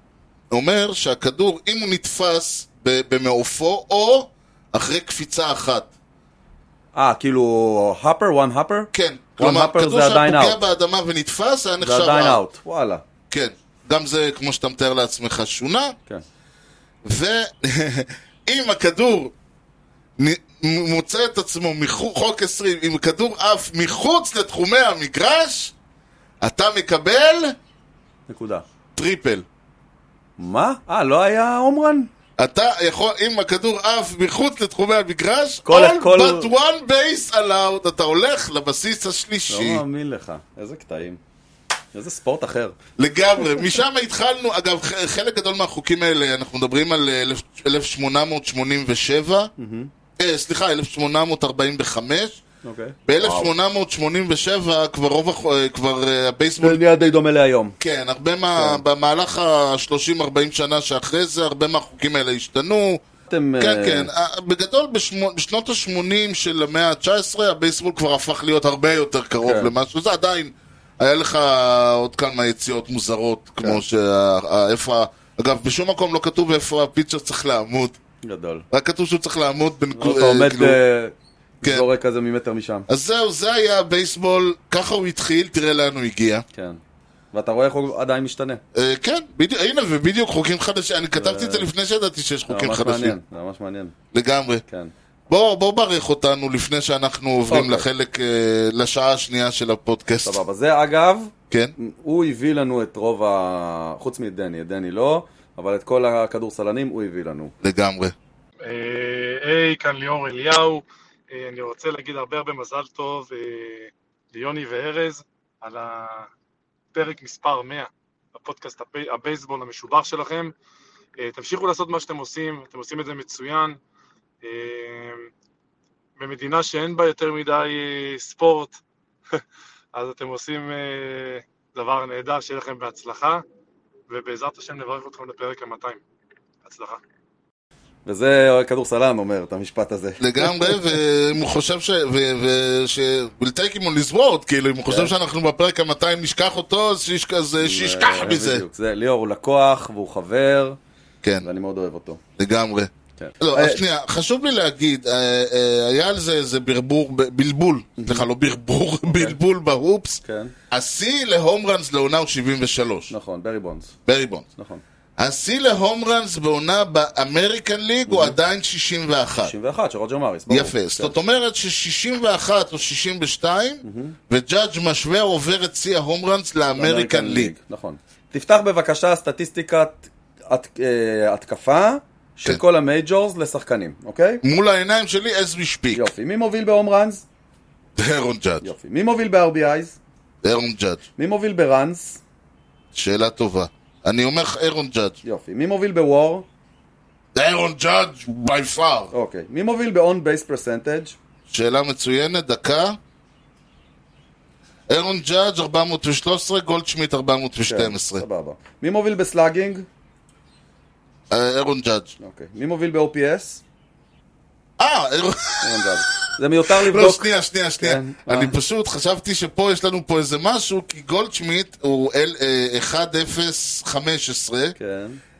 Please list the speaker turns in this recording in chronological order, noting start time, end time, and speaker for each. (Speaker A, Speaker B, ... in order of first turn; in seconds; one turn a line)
Speaker A: 0.5-5.9
Speaker B: 6.9-10.6
Speaker A: 8.9-12.4
Speaker B: 11.8-13.0
Speaker A: 13.3-15.9
Speaker A: 17.0-19.3
Speaker A: 20.2-25.7
Speaker A: 26.4-27.6
Speaker B: 28.3-28.6
Speaker A: 28.9-29.4
Speaker B: 30.4-32.1
Speaker A: 32.4-39.8
Speaker B: 35.6-36.5
Speaker B: 39.5-41.2
Speaker B: 41.9-42.8
Speaker A: 43.0-49.5
Speaker B: 49.6-49.9
Speaker A: 50.2-52.4
Speaker B: 52.6-53.5
Speaker A: 53.0-56.8
Speaker B: 56.6-57.8
Speaker A: 57.8-63.0
Speaker B: 58.5-58.8
Speaker B: 63.3-64.1
Speaker A: 63.6-78.0
Speaker B: 69.4-69.7
Speaker B: 78.2-78.6
Speaker A: 78.7-80.8
Speaker B: 80.0-82.9
Speaker A: 81.6-81.9
Speaker A: 82.9-86.4
Speaker B: 86.5-86.8
Speaker B: 87.3-88.6
Speaker A: 88.7-93.2
Speaker B: 91.1-91.7
Speaker B: 92.5-93.9
Speaker A: 94.1-94.6
Speaker A: 95.3-100.4
Speaker B: 97.5-97.9
Speaker B: 100.2-107.5
Speaker A: 107.6-108.1
Speaker C: 108.6-116.3
Speaker C: 116.9-120.5
Speaker C: 121.2-123.8
Speaker C: 124.4-125.3
Speaker C: 126.2-128.8
Speaker C: 129.9-133.4
Speaker C: 134.1-136.0
Speaker C: 136.6-137.0
Speaker B: 138.1-140.8
Speaker A: 140.2-148.6
Speaker B: 144.9-145.1
Speaker B: 147.6-150.8
Speaker A: 151.2-151.5
Speaker B: 151.4-152.2
Speaker A: 152.4-163.1
Speaker B: 153.2-153.8
Speaker B: 158.0-158.2
Speaker B: 159.1-159.4
Speaker B: 160.2-160.5
Speaker B: 163.1-163.9
Speaker A: 164.1-164.4
Speaker B: 164.6-164.8
Speaker A: 165.2-169.5
Speaker B: 168.1-168.4
Speaker B: 169.4-171.2
Speaker A: 170.5-177.5
Speaker B: 173.8-174.2
Speaker B: 176.8-184.4
Speaker A: 184.4-186.1
Speaker B: 185.9-187.2
Speaker A: 188.0-188.7
Speaker B: 188.6-190.0
Speaker A: 190.4-191.0
Speaker B: 191.2-192.2
Speaker A: 192.9-195.2
Speaker B: 195.2-196.4
Speaker A: 197.3-199.1
Speaker B: 199.1-201.2
Speaker A: 201.5-203.0
Speaker A: 204.9-208.2
Speaker B: 207.7-209.9
Speaker A: 211.3-212.2
Speaker B: 212.2-213.6
Speaker A: 214.8-224.8
Speaker B: 215.6-218.6
Speaker B: 224.8-225.2